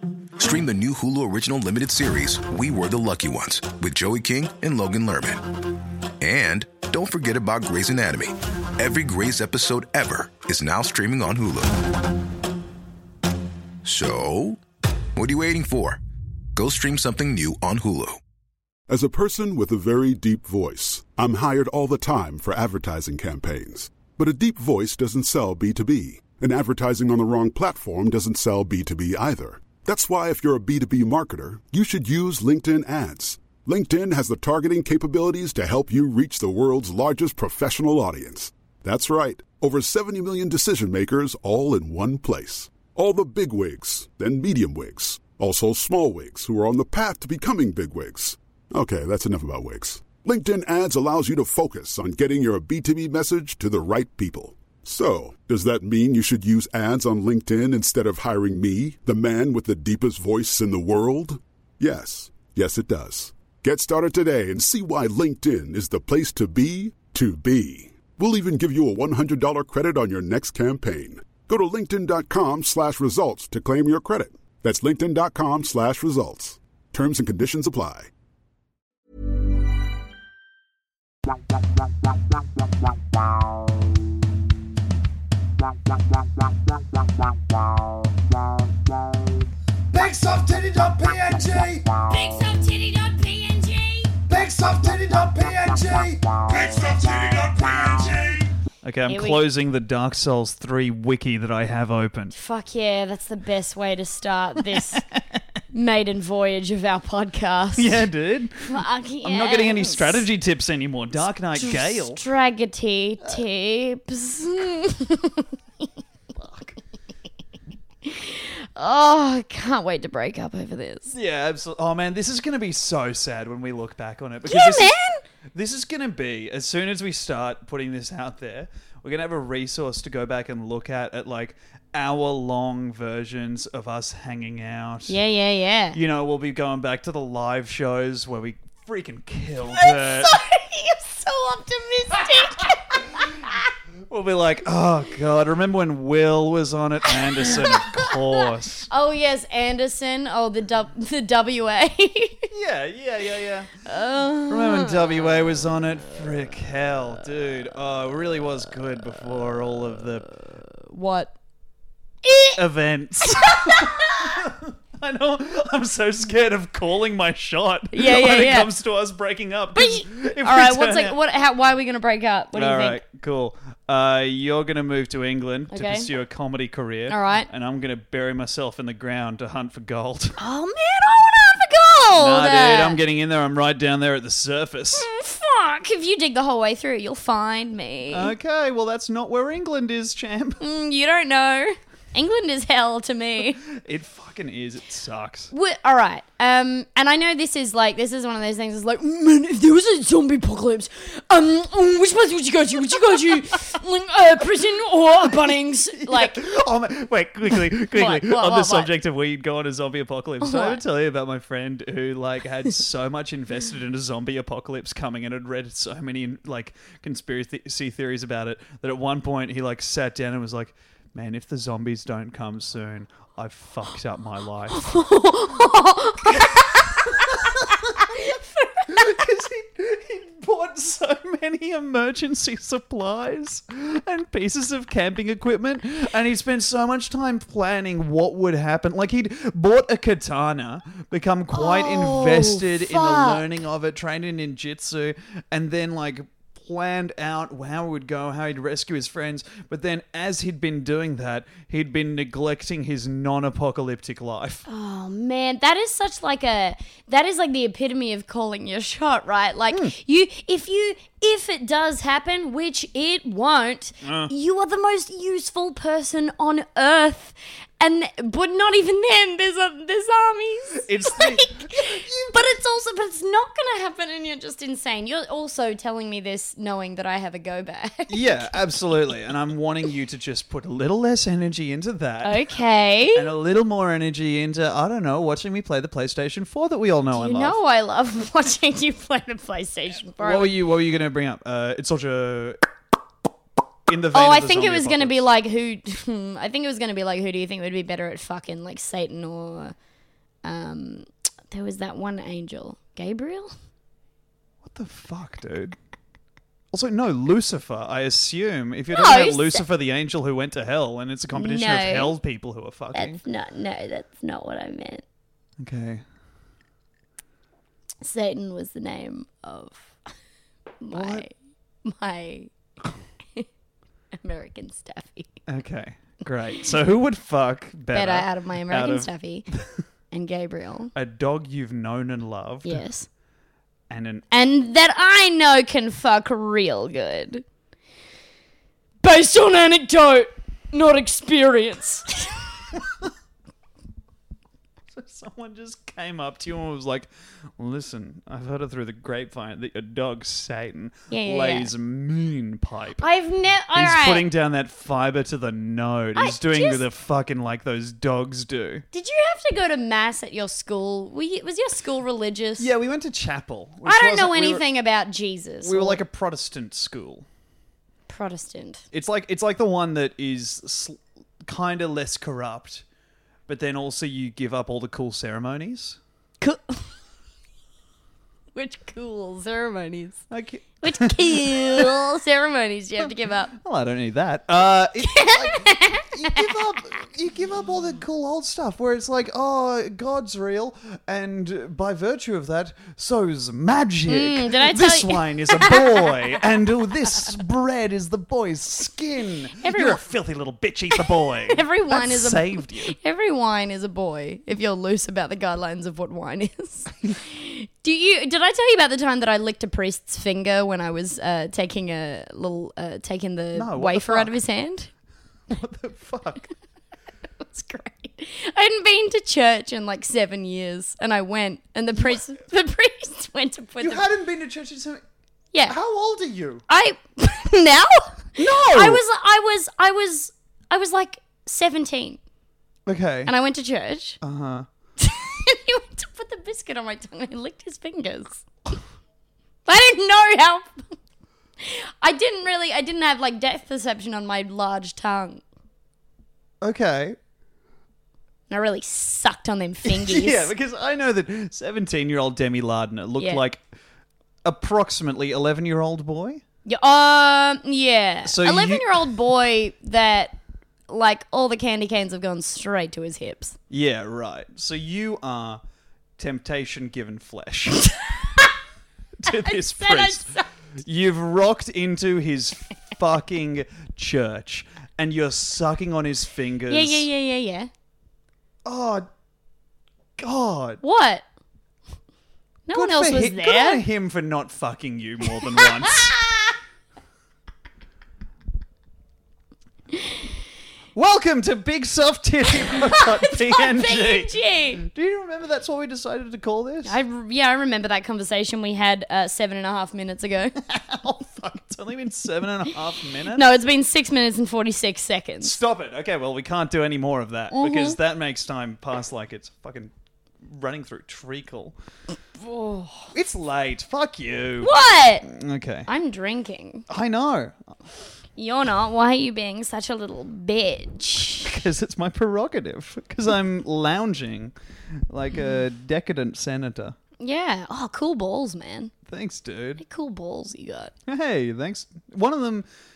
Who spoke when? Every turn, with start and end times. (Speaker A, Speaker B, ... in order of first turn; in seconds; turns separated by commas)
Speaker A: 0.4-5.5, Speaker A: 6.2-11.8, Speaker A: 13.8-14.6, Speaker A: 15.2-16.0, Speaker A: 16.5-18.2, Speaker B: 18.9-78.1, Speaker C: 89.9-91.8, Speaker D: 92.0-94.2, Speaker C: 94.3-102.3, Speaker D: 99.1-99.4, Speaker D: 102.3-105.0, Speaker C: 104.7-105.0, Speaker D: 105.7-108.1, Speaker C: 107.8-112.2, Speaker D: 108.6-110.3, Speaker D: 111.6-115.5, Speaker C: 116.4-116.7, Speaker D: 118.0-121.1, Speaker C: 121.1-124.9, Speaker D: 124.5-125.2, Speaker C: 125.5-135.2, Speaker D: 135.1-136.0, Speaker C: 135.9-140.3, Speaker D: 139.7-143.5, Speaker C: 144.1-148.9, Speaker D: 147.1-152.4, Speaker C: 152.5-153.7, Speaker D: 153.9-155.3, Speaker C: 154.5-160.3, Speaker D: 160.7-161.3, Speaker D: 162.2-162.6, Speaker C: 162.6-171.2, Speaker D: 163.2-164.3, Speaker D: 167.9-168.7, Speaker D: 169.8-173.0, Speaker C: 172.5-180.4, Speaker D: 175.7-176.1, Speaker D: 177.1-177.5, Speaker D: 180.4-183.0, Speaker C: 182.2-185.1, Speaker D: 185.0-188.3, Speaker C: 188.1-190.6, Speaker D: 190.6-193.6, Speaker C: 193.7-195.5, Speaker D: 195.5-206.4, Speaker C: 206.0-224.9, Speaker D: 207.9-208.9, Speaker D: 210.4-210.8, Speaker D: 224.8-227.4, Speaker C: 227.1-228.1, Speaker D: 228.1-229.1, Speaker C: 228.9-254.6, Speaker D: 241.5-243.4, Speaker D: 254.7-278.6, Speaker C: 264.0-264.3, Speaker C: 270.8-272.4, Speaker C: 278.1-282.4, Speaker D: 282.2-283.3, Speaker C: 283.1-287.6, Speaker D: 287.1-290.5, Speaker C: 290.2-292.6, Speaker C: 293.9-295.2, Speaker D: 294.1-299.7, Speaker D: 300.4-303.5, Speaker C: 304.6-305.8, Speaker C: 306.7-313.2, Speaker D: 308.9-309.6, Speaker D: 311.3-312.1, Speaker D: 312.9-315.0, Speaker C: 315.6-316.0, Speaker D: 318.0-319.9, Speaker D: 320.8-321.3, Speaker C: 320.9-321.3, Speaker D: 321.9-322.5, Speaker D: 324.1-325.3, Speaker C: 325.5-329.6, Speaker D: 327.9-329.5, Speaker D: 330.1-330.9, Speaker C: 330.9-332.8, Speaker D: 332.6-333.1, Speaker C: 333.9-334.3, Speaker D: 334.3-337.4, Speaker D: 339.0-342.4, Speaker C: 344.9-353.0, Speaker D: 351.1-351.7, Speaker D: 353.0-354.3, Speaker C: 353.7-358.9, Speaker D: 356.2-356.8, Speaker D: 358.9-362.7, Speaker C: 362.6-364.6, Speaker D: 363.9-366.0, Speaker C: 365.6-367.3, Speaker D: 368.1-368.8, Speaker C: 368.9-372.8, Speaker C: 373.5-376.0, Speaker D: 376.4-376.9, Speaker D: 378.6-380.2, Speaker C: 380.3-381.9, Speaker D: 380.8-383.5, Speaker C: 383.5-403.0, Speaker D: 385.1-386.5, Speaker D: 394.1-396.1, Speaker D: 399.6-400.0, Speaker D: 401.0-414.9, Speaker C: 413.5-414.4, Speaker C: 415.5-416.5, Speaker D: 417.5-424.0, Speaker C: 423.8-425.0, Speaker C: 425.7-426.6, Speaker D: 426.7-432.2, Speaker C: 428.4-429.0, Speaker C: 432.9-433.3, Speaker D: 433.3-434.2, Speaker C: 434.2-434.7, Speaker D: 435.0-438.4, Speaker D: 439.7-440.8, Speaker D: 441.6-445.4, Speaker C: 446.6-447.2, Speaker D: 448.5-450.5, Speaker C: 449.9-453.6, Speaker C: 454.4-456.4, Speaker D: 456.7-460.4, Speaker C: 458.3-459.1, Speaker D: 460.9-463.6, Speaker C: 463.7-465.6, Speaker C: 466.2-467.9, Speaker D: 467.9-468.5, Speaker C: 469.2-477.1, Speaker D: 469.3-470.5, Speaker D: 476.7-477.7, Speaker C: 478.6-479.1, Speaker C: 480.2-480.8, Speaker D: 480.8-481.2, Speaker D: 482.7-483.8, Speaker C: 482.7-486.1, Speaker D: 485.5-486.6, Speaker C: 490.9-497.0, Speaker D: 492.7-494.8, Speaker D: 496.9-500.6, Speaker C: 500.6-503.4, Speaker D: 503.3-505.6, Speaker C: 505.4-509.9, Speaker D: 507.5-508.0, Speaker C: 510.4-511.8, Speaker D: 512.4-513.1, Speaker C: 513.1-514.7, Speaker D: 514.6-515.3, Speaker C: 515.2-515.9, Speaker D: 515.9-516.9, Speaker C: 516.9-517.6, Speaker D: 518.4-521.5, Speaker C: 521.4-524.5, Speaker C: 525.1-527.0, Speaker D: 527.2-528.9, Speaker C: 529.1-529.8, Speaker D: 529.8-530.9, Speaker C: 531.1-532.7